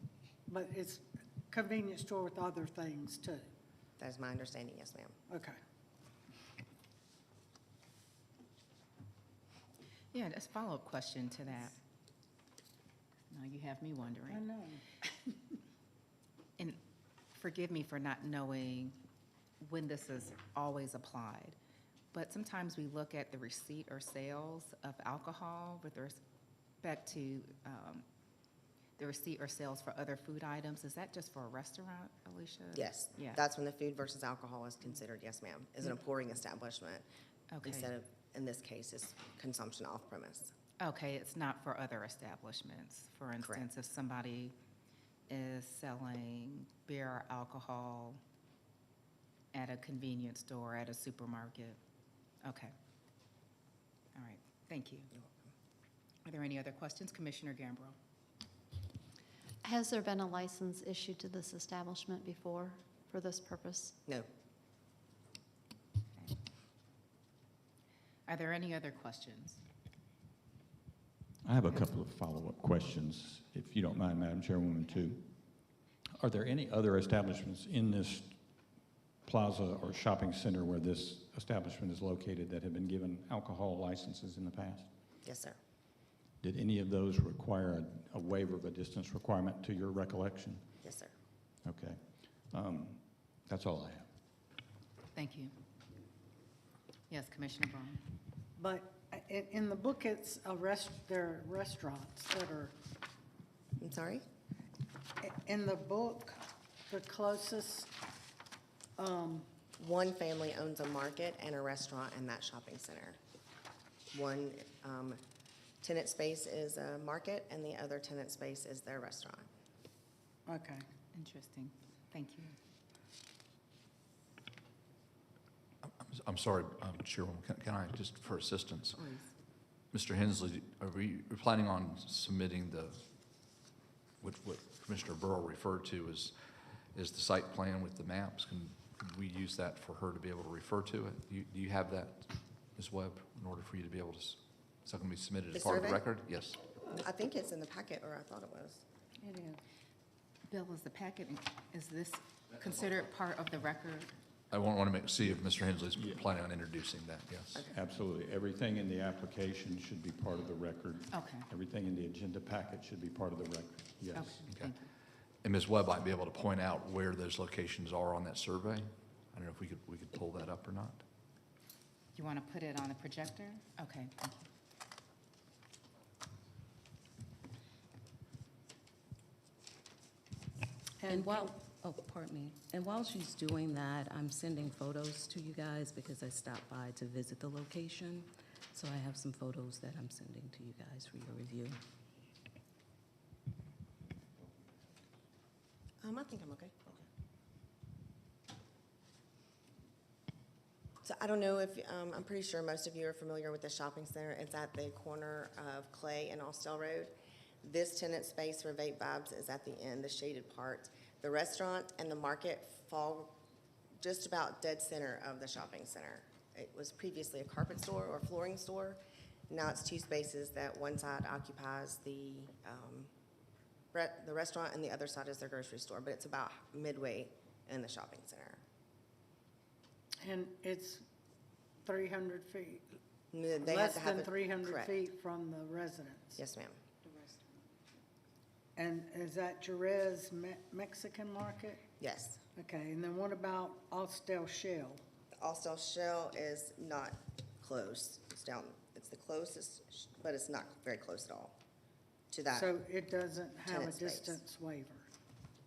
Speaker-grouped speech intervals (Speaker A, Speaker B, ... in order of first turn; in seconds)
Speaker A: 0.5-3.4, 5.3-5.6, 14.3-15.0, 98.6-102.7, 105.2-107.9, 109.0-109.5, 120.5-120.8, 149.2-149.6, 181.0-181.5, 230.2-231.0, 231.8-233.0, 233.6-236.4, 238.8-241.8, 242.6-245.0, 252.5-255.1
Speaker B: 4.0-5.1, 32.7-37.0, 37.6-40.5, 55.1-55.5, 85.2-85.6, 90.8-91.1, 103.8-104.2, 109.8-113.2, 114.1-115.2, 115.8-119.5, 145.5-146.1, 146.8-148.8, 196.0-196.7, 201.0-213.3, 214.0-223.1, 223.9-228.6, 233.3-234.9, 236.4-236.8, 242.0-242.4, 245.4-251.5, 252.3-252.7, 253.7-254.4
Speaker C: 10.1-11.7, 13.3-14.5, 17.3-19.0, 19.6-21.6, 22.1-26.2, 26.8-28.0, 29.0-33.4, 37.5-37.9, 40.8-44.5, 45.3-48.2, 49.5-51.8, 52.4-52.7, 54.1-55.1, 56.2-58.0, 68.3-69.6, 95.1-95.5, 97.1-98.0, 121.1-122.5, 129.0-129.3, 150.5-154.1, 161.1-161.4, 164.1-164.9, 172.1-174.5
Speaker D: 59.6-64.0
Speaker E: 71.4-75.3, 76.2-78.4, 79.2-84.9, 86.4-90.7, 91.6-92.0, 92.5-94.1, 155.9-156.3, 157.7-164.4
Speaker F: 126.0-129.0, 129.9-133.0, 134.2-136.3, 136.9-146.6, 154.5-157.6, 164.5-164.7, 165.4-171.0
Speaker G: 181.1-191.8